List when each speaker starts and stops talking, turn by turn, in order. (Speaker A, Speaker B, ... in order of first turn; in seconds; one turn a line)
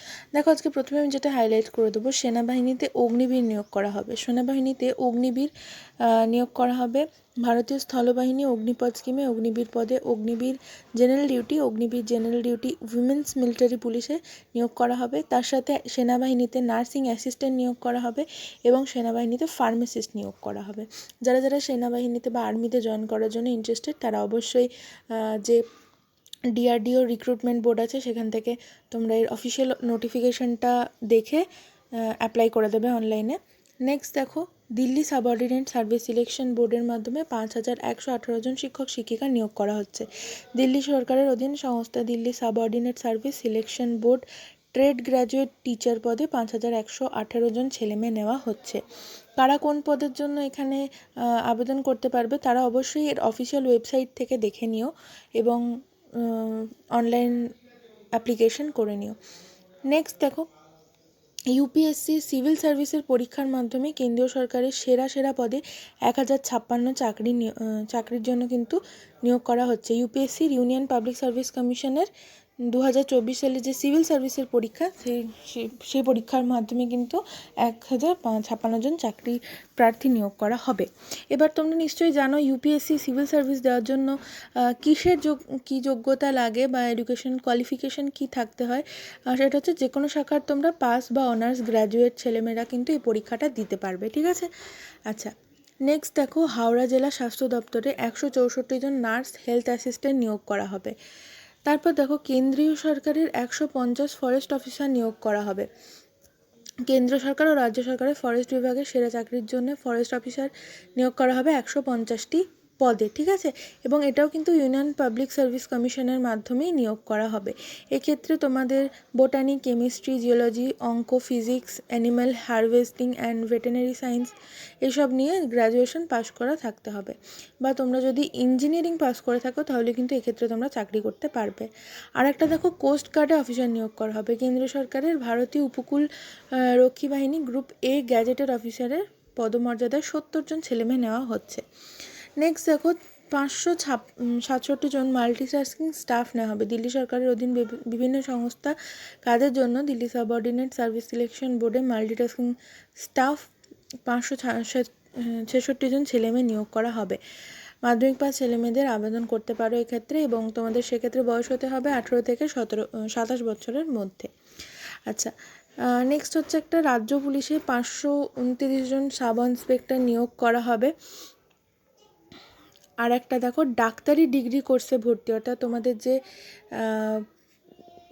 Speaker A: 0.3-5.5
Speaker A: 6.0-25.6
Speaker A: 26.5-31.4
Speaker A: 32.0-48.8
Speaker A: 49.4-50.8
Speaker A: 51.4-55.6
Speaker A: 56.2-57.4
Speaker A: 58.1-59.2
Speaker A: 59.9-60.5
Speaker A: 61.5-72.1
Speaker A: 72.7-84.1
Speaker A: 84.6-94.5
Speaker A: 95.1-95.3
Speaker A: 95.9-100.9
Speaker A: 101.7-105.7
Speaker A: 106.9-141.6
Speaker A: 142.4-153.5
Speaker A: 154.1-157.2
Speaker A: 157.8-164.3
Speaker A: 165.9-170.9
Speaker A: 173.0-176.2
Speaker A: 176.8-177.2